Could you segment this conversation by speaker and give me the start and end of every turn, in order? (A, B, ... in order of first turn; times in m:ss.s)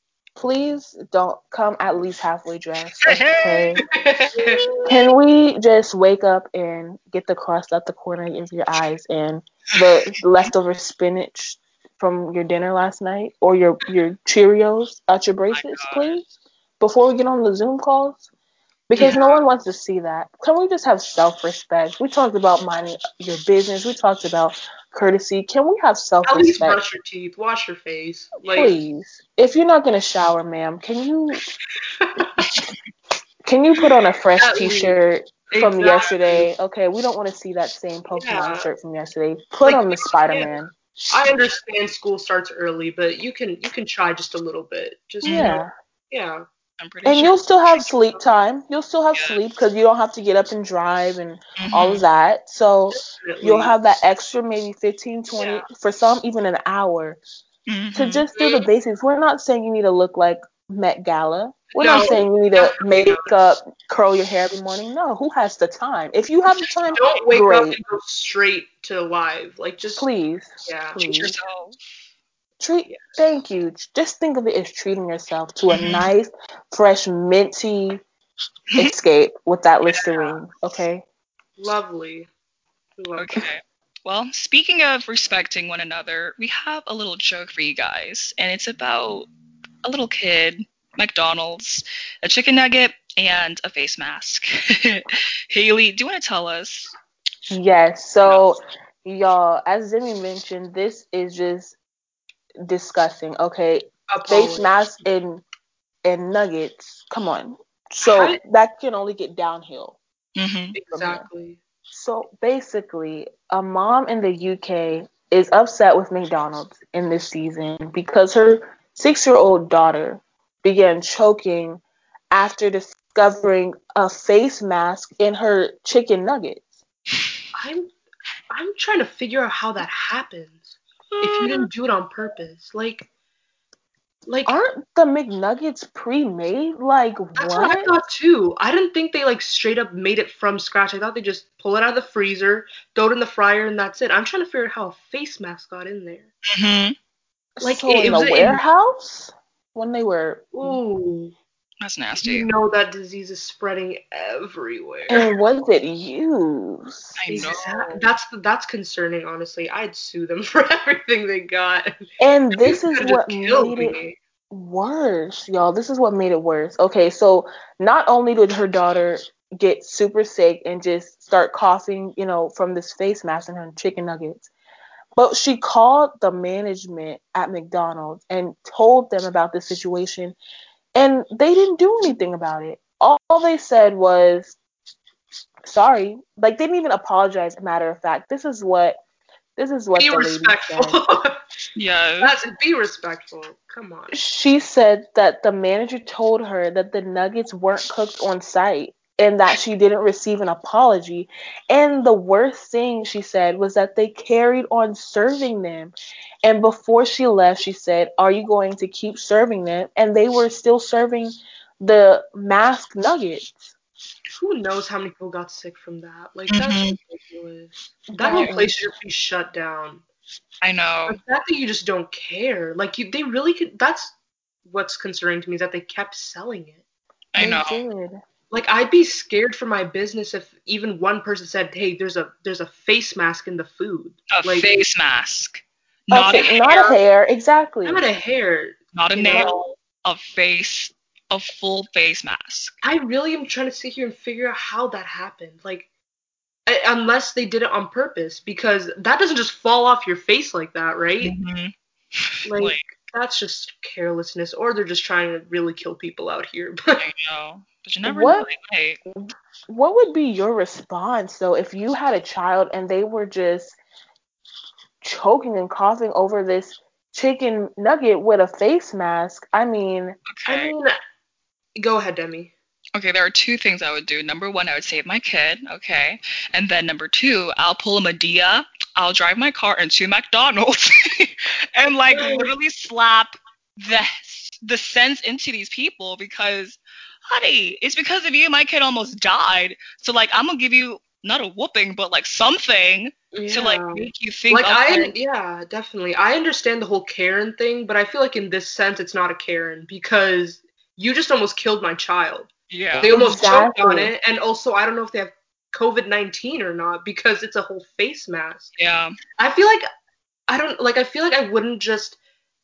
0:00.4-0:03.8 A
0:03.0-0:03.8 B
0:03.8-0:04.9 C
0:04.4-0:05.0 B
0:04.9-0:16.3 A
0:15.5-0:16.2 B
0:16.8-0:18.3 A
0:18.9-0:26.8 A
0:19.0-0:19.4 C
0:26.2-0:28.8 C
0:28.5-0:31.4 A
0:32.0-0:32.5 C
0:33.4-0:40.8 A
0:34.4-0:35.0 C
0:35.5-0:36.5 C
0:38.1-0:38.7 C
0:39.6-0:40.6 C
0:41.1-0:46.4 C
0:45.2-0:45.6 B
0:45.3-0:45.7 A
0:46.8-0:47.9 B
0:47.0-0:57.2 A
0:49.1-0:49.4 B
0:51.6-0:52.0 B
0:53.0-0:53.8 C
0:55.4-0:55.7 C
0:57.7-0:58.2 B
0:57.9-1:07.8 A
0:58.4-0:58.7 C
1:01.8-1:03.3 C
1:02.0-1:02.2 B
1:06.9-1:10.1 C
1:10.0-1:11.4 A
1:10.6-1:11.3 C
1:11.1-1:11.8 B
1:12.6-1:18.0 A
1:12.8-1:13.2 C
1:15.7-1:16.1 B
1:18.8-1:21.0 A
1:19.9-1:20.4 C
1:21.6-1:22.3 C
1:23.0-1:23.4 C
1:23.2-1:29.3 B
1:29.8-1:36.9 B
1:37.5-1:41.8 A
1:42.7-1:45.4 A
1:44.1-1:44.8 C
1:46.0-1:50.0 A
1:48.0-1:48.4 C
1:50.4-1:50.8 B
1:50.8-1:51.6 C
1:50.9-1:51.3 A
1:51.9-2:06.7 A
2:07.6-2:07.9 C
2:08.5-2:13.1 C
2:11.2-2:11.7 B
2:14.3-2:14.5 C
2:14.5-2:17.9 A
2:17.4-2:26.3 C
2:26.5-2:27.0 B
2:27.6-2:30.8 A
2:27.6-2:28.6 C
2:30.5-2:31.4 C
2:31.8-2:32.5 B
2:32.2-2:35.3 C
2:35.1-2:37.5 A
2:37.2-2:38.1 B
2:37.3-2:42.0 C
2:42.2-2:44.0 A
2:42.6-2:44.2 C
2:44.5-2:54.5 A
2:55.2-3:00.4 A
3:01.0-3:04.6 A
3:05.6-3:09.0 A
3:09.6-3:11.0 A
3:10.0-3:11.4 C
3:11.8-3:12.3 B
3:12.2-3:14.2 C
3:14.1-3:33.7 A
3:34.3-3:40.0 C
3:36.5-3:37.0 B
3:38.2-3:38.7 A
3:38.3-3:38.6 B
3:40.6-3:41.2 B
3:41.1-3:44.1 C
3:44.7-3:46.8 C
3:47.3-3:47.8 B
3:47.4-3:48.2 A
3:48.5-3:54.8 C
3:54.3-3:56.9 B
3:56.1-3:58.0 A
3:56.4-3:57.0 C
3:57.8-3:59.6 C
3:58.9-4:02.8 B
4:02.8-4:05.9 C
4:06.7-4:11.4 C
4:11.2-4:12.8 B
4:12.4-4:17.0 C
4:17.0-4:19.0 B
4:18.1-4:18.5 A
4:19.7-4:23.8 A
4:25.0-4:30.2 A
4:30.3-4:30.8 B
4:30.5-4:31.0 C
4:31.8-4:32.5 C
4:33.0-4:55.2 B
4:42.1-4:42.5 C
4:53.3-5:08.7 C
5:02.7-5:03.1 B
5:03.0-5:04.1 A
5:08.8-5:09.1 B
5:09.4-5:09.8 C
5:10.5-5:12.2 C